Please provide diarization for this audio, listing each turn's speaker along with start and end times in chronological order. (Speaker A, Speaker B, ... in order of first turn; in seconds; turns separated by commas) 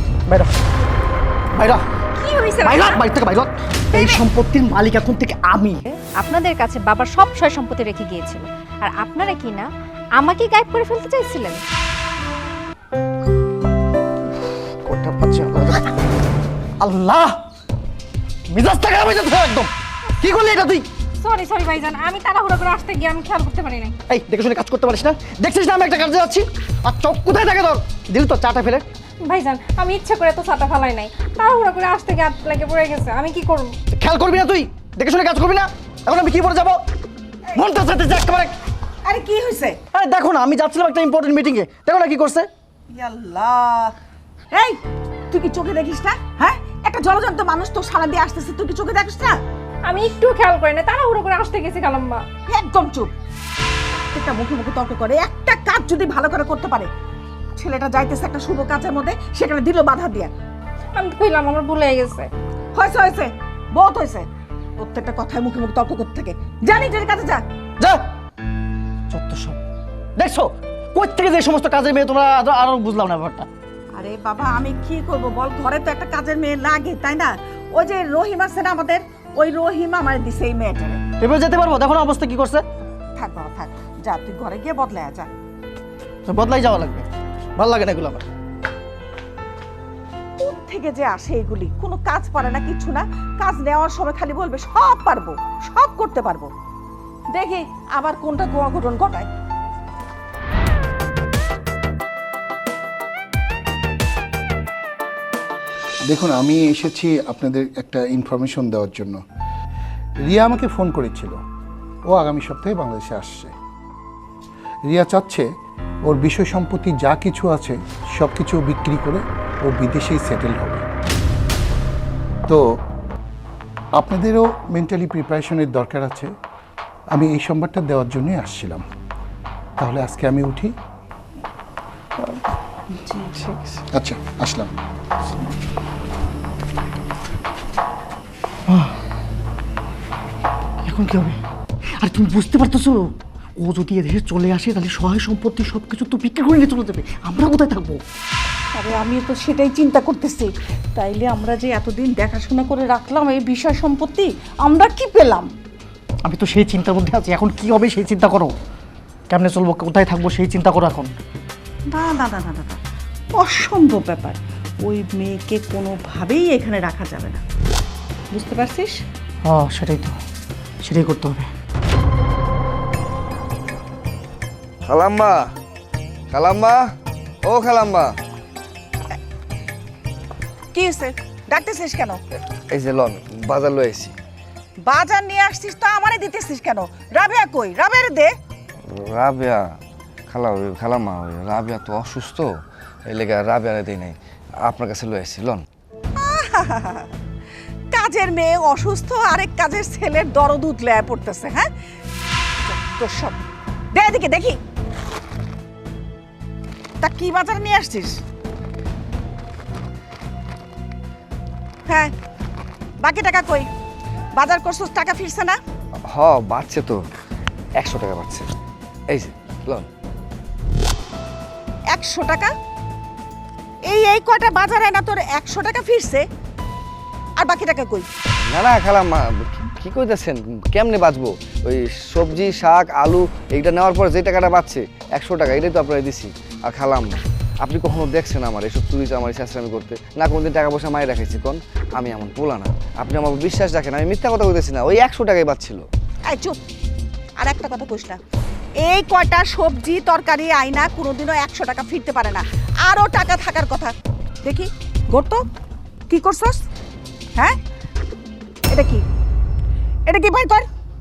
Speaker A: 1.5-1.8, Speaker B: 2.2-3.0, Speaker A: 2.6-5.9, Speaker B: 6.2-9.7, Speaker B: 10.2-11.6, Speaker A: 14.3-15.9, Speaker A: 16.8-17.4, Speaker A: 18.5-20.9, Speaker B: 21.2-23.9, Speaker A: 24.1-28.9, Speaker B: 29.2-33.8, Speaker A: 33.9-36.8, Speaker A: 37.5-38.6, Speaker C: 39.0-39.8, Speaker A: 39.9-42.5, Speaker C: 42.9-44.0, Speaker C: 44.5-44.8, Speaker C: 45.3-49.4, Speaker B: 49.9-52.2, Speaker C: 52.5-53.1, Speaker C: 54.1-56.9, Speaker C: 57.6-60.3, Speaker B: 61.0-62.3, Speaker C: 62.7-64.3, Speaker C: 64.8-67.4, Speaker A: 69.1-69.6, Speaker A: 70.2-73.5, Speaker C: 74.0-81.0, Speaker A: 81.2-82.7, Speaker C: 83.2-85.3, Speaker A: 86.3-88.2, Speaker C: 90.4-96.5, Speaker C: 97.3-99.3, Speaker D: 106.1-109.2, Speaker D: 110.2-111.4, Speaker D: 112.1-113.5, Speaker D: 114.9-115.5, Speaker D: 116.1-120.8, Speaker D: 124.0-126.3, Speaker D: 127.1-128.8, Speaker D: 129.8-130.7, Speaker C: 132.9-133.8, Speaker D: 133.9-134.7, Speaker A: 138.7-138.9, Speaker A: 140.8-141.4, Speaker A: 142.0-148.0, Speaker C: 148.7-155.5, Speaker A: 156.3-158.6, Speaker A: 159.3-161.2, Speaker C: 161.9-162.8, Speaker C: 163.4-167.4, Speaker C: 168.3-169.0, Speaker A: 169.4-170.2, Speaker A: 170.8-171.5, Speaker E: 174.8-175.5, Speaker E: 176.3-176.9, Speaker E: 177.4-178.2, Speaker C: 180.7-182.2, Speaker E: 182.7-184.2, Speaker C: 184.8-188.3, Speaker E: 188.9-195.7, Speaker C: 196.2-197.1, Speaker C: 197.9-201.7, Speaker C: 202.7-203.4, Speaker C: 203.9-204.6, Speaker C: 207.0-208.2, Speaker C: 211.9-212.1, Speaker C: 213.0-213.7, Speaker C: 214.3-215.6, Speaker E: 216.1-217.0, Speaker E: 217.8-218.5, Speaker E: 219.1-219.9, Speaker C: 221.9-222.5, Speaker C: 223.9-226.2, Speaker C: 227.4-228.1, Speaker E: 228.3-245.9, Speaker C: 246.3-246.6, Speaker C: 247.4-248.2, Speaker C: 248.8-255.4, Speaker C: 256.1-256.6, Speaker C: 258.7-259.0, Speaker C: 260.1-260.7